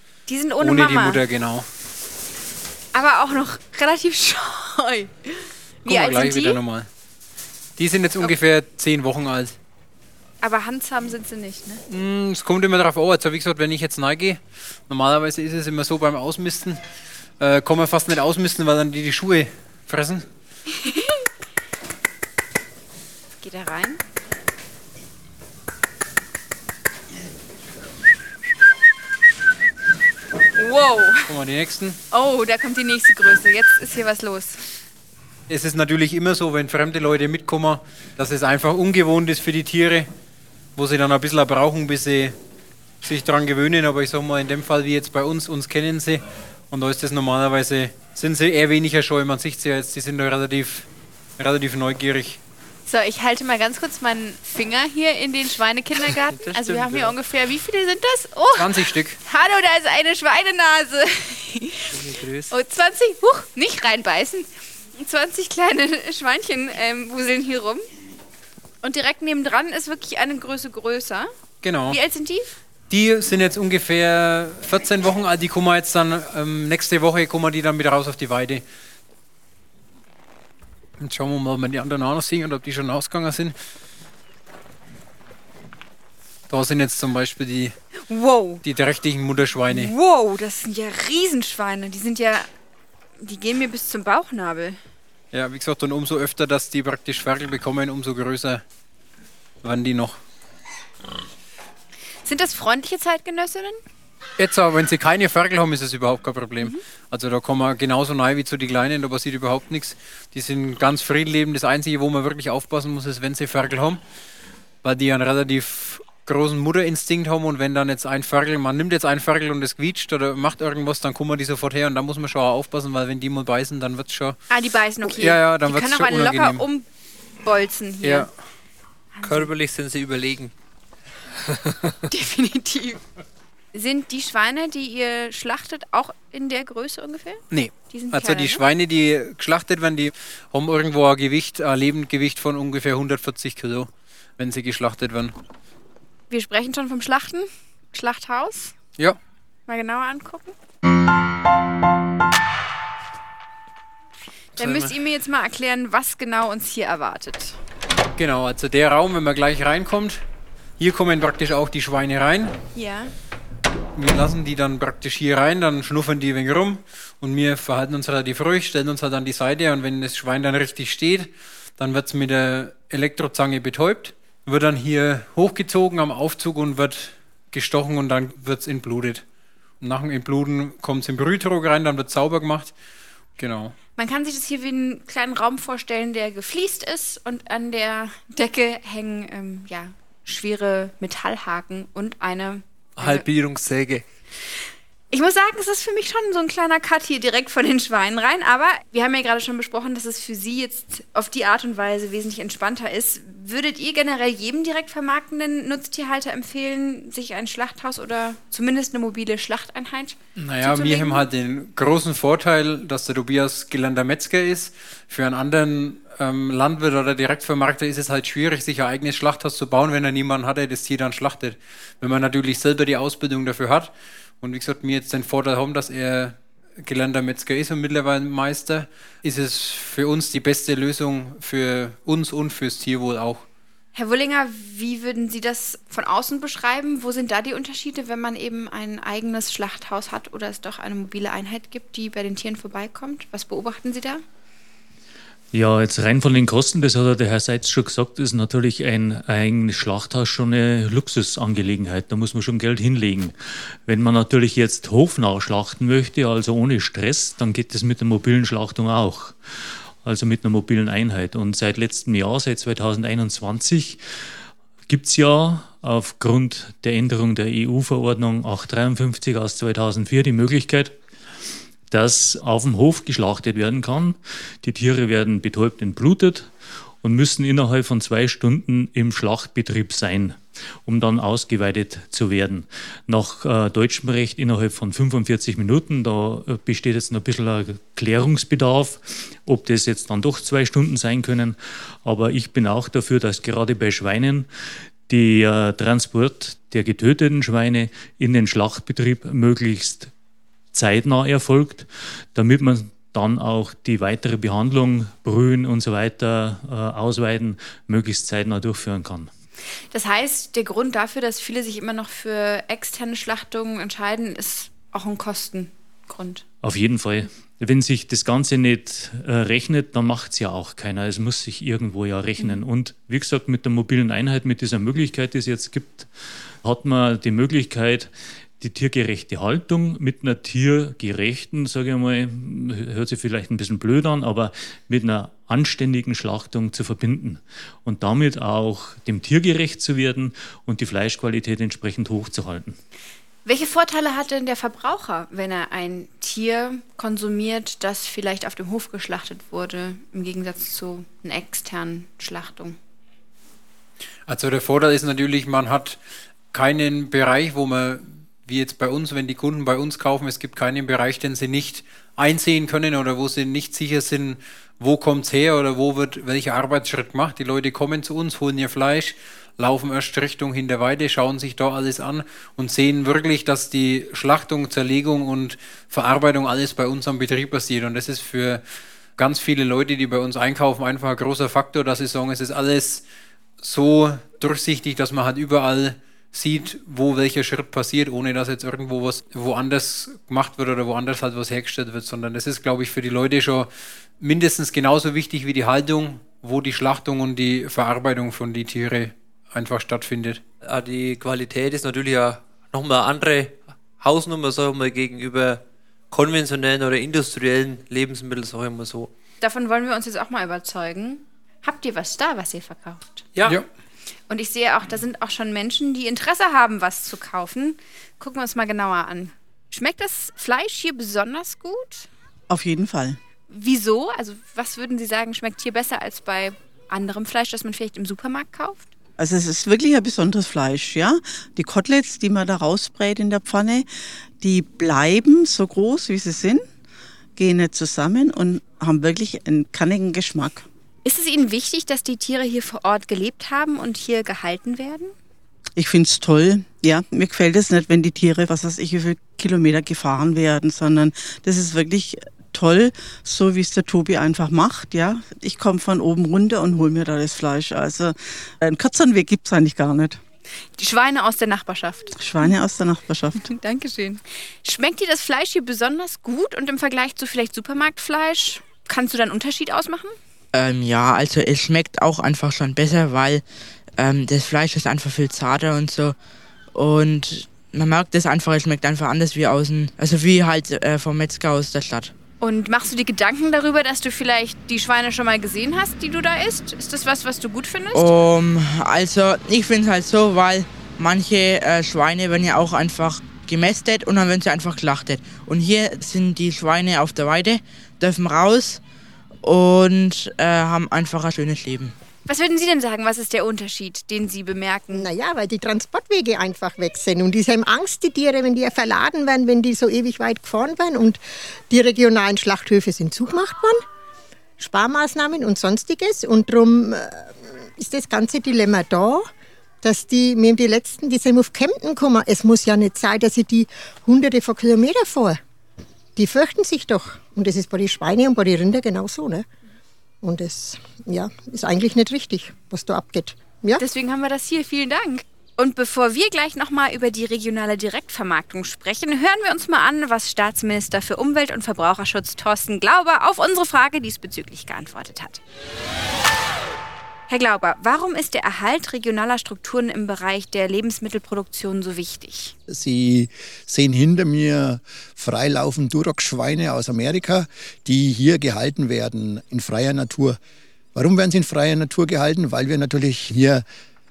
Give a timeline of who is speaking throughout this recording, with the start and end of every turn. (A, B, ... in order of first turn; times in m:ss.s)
0:00.3-0:01.2 A
0:00.6-0:01.7 B
0:02.9-0:06.6 A
0:05.8-0:06.9 B
0:07.8-0:09.6 B
0:10.4-0:11.8 A
0:11.9-0:16.8 B
0:17.4-0:20.2 B
0:20.8-0:21.2 A
0:23.4-0:24.0 A
0:30.6-0:31.3 A
0:31.2-0:32.0 B
0:32.1-0:34.6 A
0:35.5-0:40.1 B
0:40.7-0:42.4 B
0:43.0-0:50.9 B
0:51.4-0:52.4 B
0:52.9-1:01.9 A
0:56.3-0:57.1 C
0:58.6-0:59.2 B
1:01.9-1:02.5 C
1:02.5-1:07.8 A
1:08.8-1:11.3 A
1:11.6-1:12.0 B
1:11.9-1:12.6 A
1:12.9-1:18.6 B
1:21.0-1:23.5 B
1:26.5-1:27.8 B
1:28.1-1:28.6 A
1:28.6-1:29.9 B
1:29.7-1:32.5 A
1:33.2-1:34.8 A
1:35.3-1:38.6 B
1:39.6-1:40.2 B
1:42.2-1:43.8 A
1:44.4-1:54.0 B
1:54.8-2:04.4 B
2:04.5-2:06.9 A
2:05.0-2:06.6 B
2:07.4-2:08.3 A
2:08.0-2:08.3 B
2:09.2-2:09.5 A
2:09.2-2:10.5 C
2:11.5-2:11.9 C
2:12.1-2:13.0 A
2:13.7-2:18.6 A
2:17.5-2:25.3 B
2:26.3-2:28.7 A
2:29.7-2:30.5 A
2:34.6-2:37.6 A
2:34.6-2:34.9 B
2:38.2-2:40.2 B
2:40.8-2:42.6 B
2:42.7-2:43.1 A
2:43.9-2:59.2 B
2:59.8-3:02.7 B
3:03.4-3:03.7 B
3:04.0-3:13.2 A
3:13.0-3:14.0 C
3:15.1-3:31.2 A
3:30.4-3:53.4 B
3:53.9-4:04.2 A
4:05.5-4:24.0 D
4:24.9-4:31.0 D
4:31.9-4:36.5 D
4:37.0-4:54.5 D
4:55.1-5:00.1 D
5:00.7-5:09.3 D
5:09.9-5:16.4 A
5:16.6-5:26.1 D
5:26.6-5:42.8 D
5:43.4-5:52.8 A
5:54.3-5:56.0 B
5:56.5-6:18.6 B
6:19.2-6:23.0 B
6:23.6-6:33.7 B
6:34.2-6:40.4 B
6:40.6-6:49.1 C
6:49.4-6:53.2 A
6:53.3-6:53.6 C
6:54.3-7:02.1 A
7:02.5-7:03.2 E
7:03.5-7:08.9 A
7:09.2-7:13.9 E
7:14.4-7:16.6 E
7:17.4-7:20.6 E
7:21.0-7:25.1 A
7:25.8-7:40.2 E
7:40.8-7:42.5 A
7:42.1-7:43.4 E
7:43.4-7:50.1 A
7:50.5-7:53.4 F
7:54.0-7:56.1 F
7:56.7-8:02.1 F
8:02.4-8:08.1 A
8:07.9-8:18.8 F
8:19.4-8:21.9 F
8:22.2-8:25.1 A
8:24.9-8:33.8 G
8:34.6-8:39.3 G
8:39.8-8:45.4 G
8:46.2-8:49.5 G
8:50.2-8:53.8 G
8:53.8-9:05.4 A
9:07.3-9:12.5 A
9:12.7-9:20.4 H
9:20.9-9:23.6 H